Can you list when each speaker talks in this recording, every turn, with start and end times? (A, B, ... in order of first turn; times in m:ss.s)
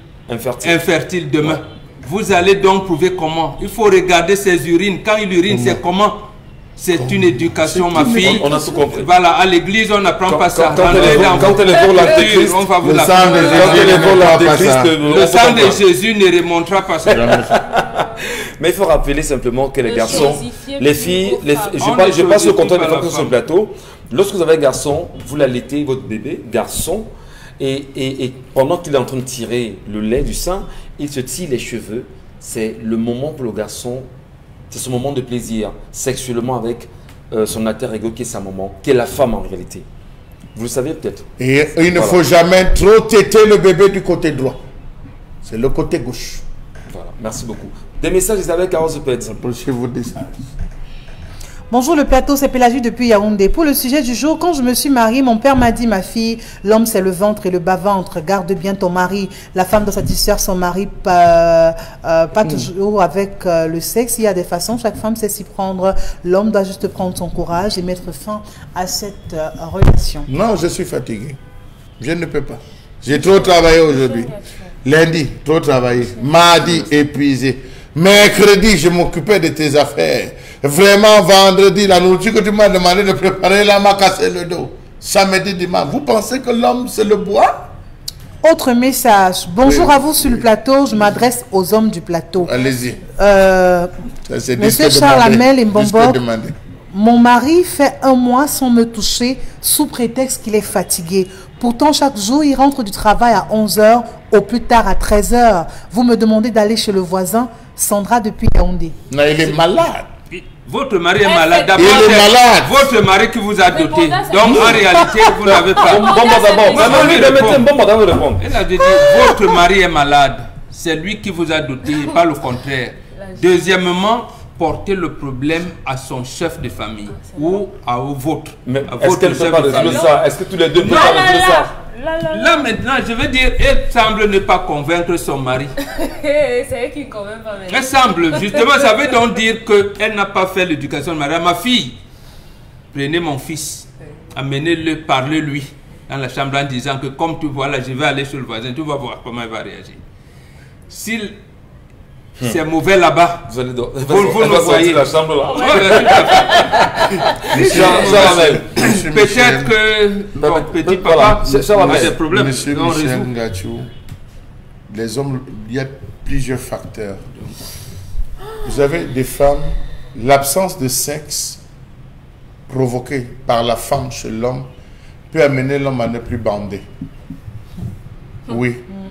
0:00.3-0:00.8 A
0:00.6-0:14.5 B
0:05.5-0:05.8 C
0:07.0-0:08.8 C
0:08.0-0:09.1 A
0:10.2-0:12.6 A
0:10.8-0:11.6 C
0:12.8-0:15.0 C
0:13.4-0:15.8 A
0:15.0-0:17.4 B
0:17.1-0:17.6 C
0:17.1-0:34.1 A
0:19.8-0:22.0 D
0:21.8-0:23.4 B
0:34.7-0:39.8 A
0:40.5-0:41.3 A
0:41.4-0:44.6 C
0:41.9-0:42.2 A
0:45.4-0:46.4 C
0:46.9-0:49.4 A
0:49.3-0:50.5 C
0:51.7-1:10.3 E
1:10.3-1:11.4 C
1:12.0-1:14.3 C
1:13.1-1:14.7 D
1:14.8-1:27.7 C
1:28.4-1:32.5 E
1:29.6-1:30.5 C
1:32.4-1:33.0 C
1:33.2-1:33.9 E
1:34.3-1:36.5 C
1:34.6-1:36.2 E
1:36.9-1:49.0 E
1:49.1-1:50.1 C
1:50.3-1:57.7 B
1:51.2-1:52.0 D
1:51.7-1:52.8 C
1:53.7-1:57.3 D
1:54.4-1:54.8 A
1:55.8-1:58.4 A
1:58.4-2:10.1 B
1:59.0-1:59.3 D
2:03.2-2:03.6 D
2:07.2-2:07.6 D
2:08.6-2:11.7 A
2:09.7-2:10.1 D
2:10.8-2:12.7 D
2:10.8-2:11.1 B
2:12.3-2:15.7 B
2:15.8-2:18.8 D
2:17.7-2:22.0 B
2:22.9-2:30.0 B
2:30.9-2:31.4 B
2:32.4-2:33.5 B
2:33.5-2:38.6 A
2:34.1-2:43.3 B
2:35.6-2:37.3 D
2:37.5-2:39.7 C
2:40.4-2:42.1 A
2:41.7-2:43.9 C
2:44.9-2:47.3 C
2:48.6-2:51.6 C
2:52.7-2:54.7 C
2:55.3-2:56.8 C
2:58.5-2:58.8 C